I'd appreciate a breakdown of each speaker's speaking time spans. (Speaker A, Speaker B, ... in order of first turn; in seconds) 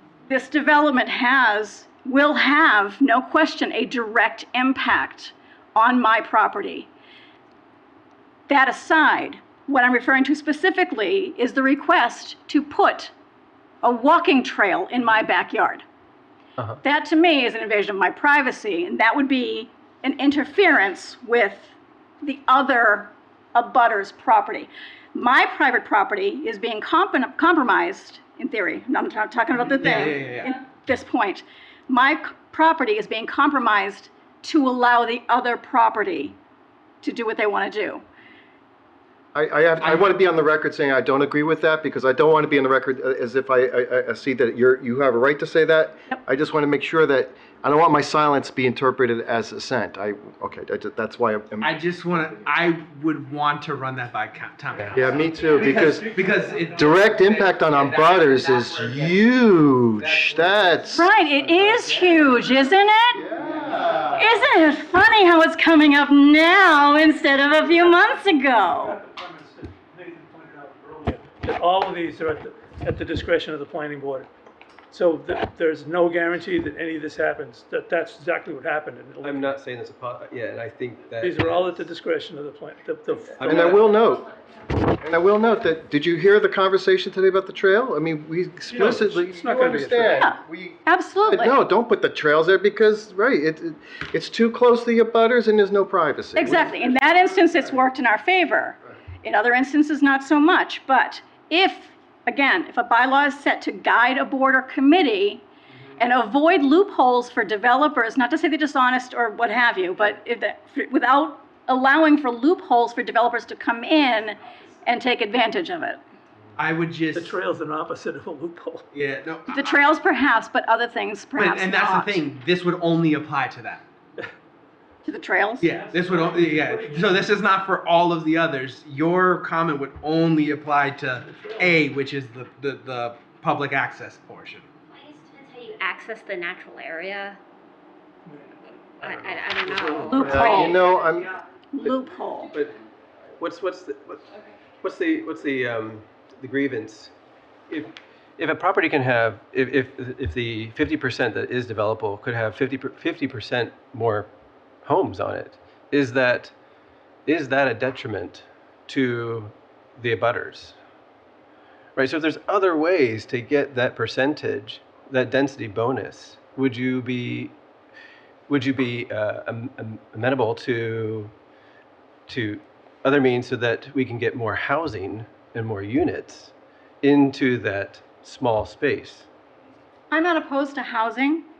Speaker A: 0.3-6.9, 8.5-13.1, 13.8-15.8, 16.8-36.4, 37.0-38.0, 60.9-63.3, 64.1-69.0, 90.2-91.6, 96.3-105.5, 106.0-116.0, 119.5-122.2, 125.0-125.7, 140.1-140.8, 141.7-142.5, 180.1-181.5
Speaker B: 29.5-30.6, 51.6-59.3, 59.9-62.5, 63.4-64.3, 116.6-117.4, 118.9-119.8, 121.4-123.8, 125.6-134.7
Speaker C: 39.3-52.4, 54.9-61.1, 63.1-64.2, 83.4-84.3, 84.9-96.8, 140.2-141.3
Speaker D: 55.7-56.6, 67.7-74.3, 74.9-79.5, 81.2-83.7, 88.7-90.2, 117.1-118.8, 125.7-127.4, 131.2-131.8, 138.3-138.6
Speaker E: 79.2-81.9, 83.4-84.0, 139.9-140.3, 143.4-144.3, 144.8-147.1, 147.7-154.3, 154.8-156.5, 157.3-160.8, 162.0-167.6, 168.5-171.3, 172.3-179.3
Speaker F: 135.0-137.4, 139.0-140.7